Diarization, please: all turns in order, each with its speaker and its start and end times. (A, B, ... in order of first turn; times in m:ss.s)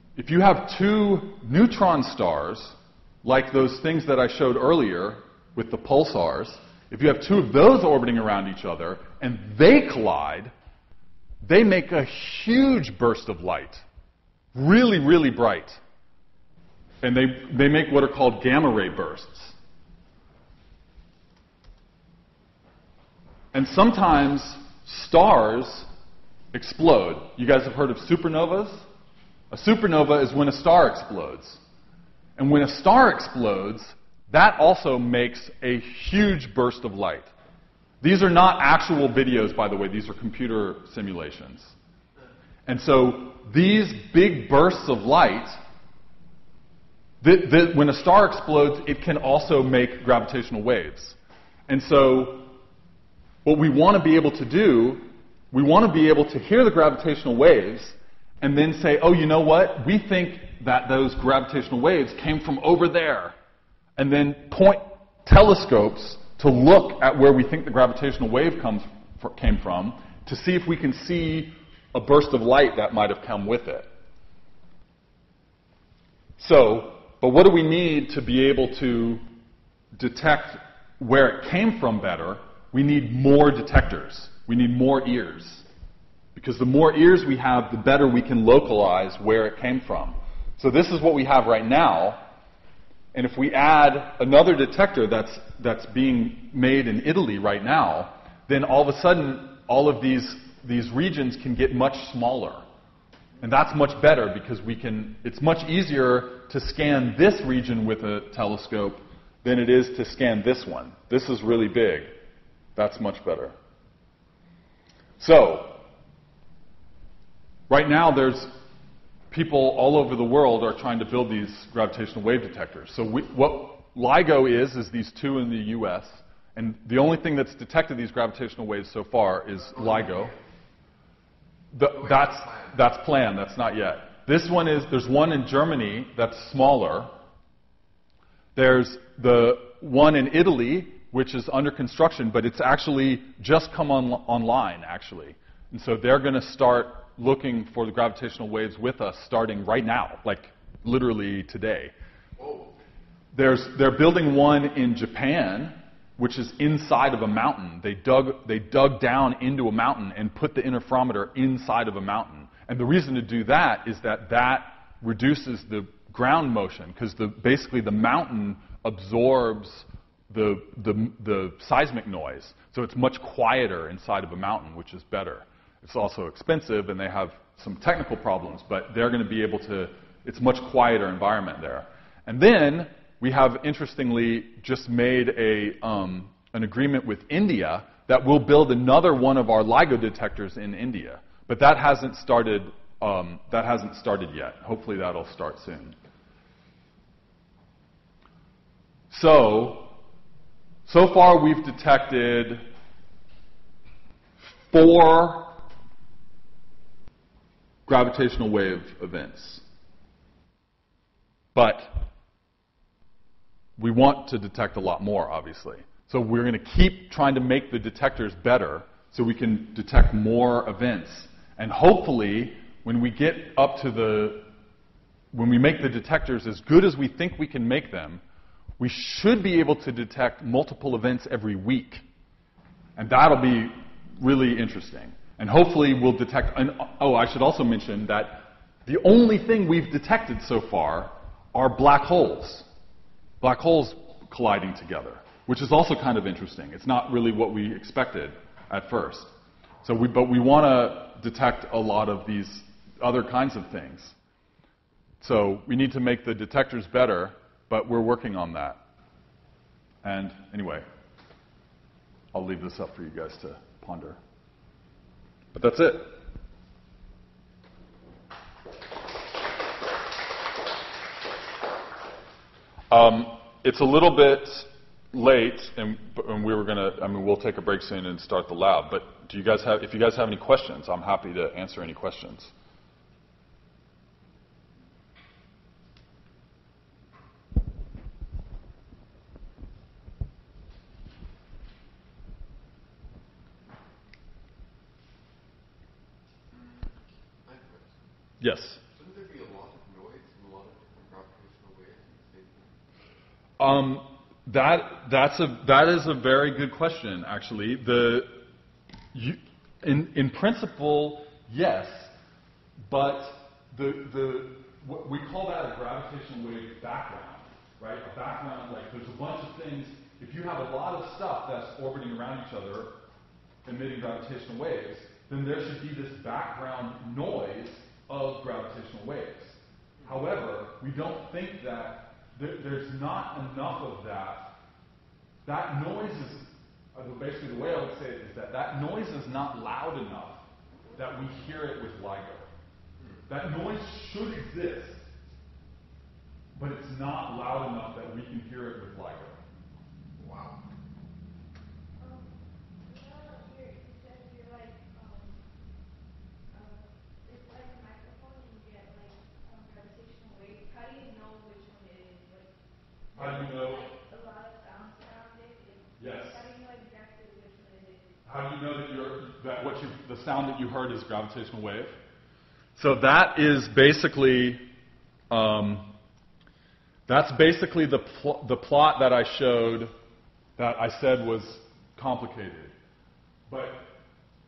0:00.2-0:10.5 A
0:11.4-0:13.8 A
0:14.6-0:15.8 A
0:17.0-0:19.6 A
0:23.5-0:25.9 A
0:26.5-0:28.9 A
0:29.5-0:31.6 A
0:32.4-0:37.3 A
0:38.0-0:41.8 A
0:42.7-0:45.6 A
0:47.2-0:51.2 A
0:51.7-0:52.5 A
0:53.4-1:03.4 A
1:04.0-1:13.9 A
1:16.4-1:19.2 A
1:20.0-1:25.6 A
1:26.4-1:32.2 A
1:33.1-1:42.6 A
1:43.4-1:52.1 A
1:52.8-1:53.6 A
1:55.2-1:55.8 A
1:57.7-1:58.6 A
1:59.3-2:10.4 A
2:09.5-2:10.5 B
2:11.7-2:17.1 A
2:11.9-2:12.8 B
2:18.6-2:31.9 A
2:32.4-2:32.8 B
2:33.3-3:16.0 A
3:19.1-3:20.0 A
3:20.9-3:22.7 A
3:24.7-3:25.6 A
3:27.9-3:29.6 A
3:31.6-3:32.1 A
3:33.8-3:44.5 A
3:45.3-3:48.2 A
3:48.8-3:52.0 A
3:53.0-4:02.7 A
4:03.4-4:09.3 A
4:09.8-4:14.2 A
4:15.2-4:18.8 A
4:20.0-4:20.9 A
4:22.3-4:24.2 A
4:25.5-4:26.2 A
4:32.9-4:42.5 A
4:56.5-4:58.1 B
4:58.4-4:58.8 A
4:58.9-5:02.8 B
5:03.6-5:08.4 A
5:09.1-5:12.1 A
5:12.9-5:22.9 A
5:23.6-5:34.5 A
5:30.0-5:30.3 B
5:35.4-5:40.4 A
5:40.7-5:41.0 B
5:41.0-5:42.5 A
5:43.0-5:43.3 B
5:43.3-5:45.1 A
5:46.6-5:49.4 A
5:50.2-5:50.6 B
5:52.0-5:55.4 C
5:56.5-6:02.5 C
6:03.1-6:08.2 C
6:03.2-6:03.9 A
6:06.0-6:06.4 A
6:08.2-6:12.0 A
6:12.8-6:14.6 A
6:15.3-6:15.9 A
6:17.1-6:19.9 A
6:20.6-6:22.7 A
6:23.5-6:23.9 A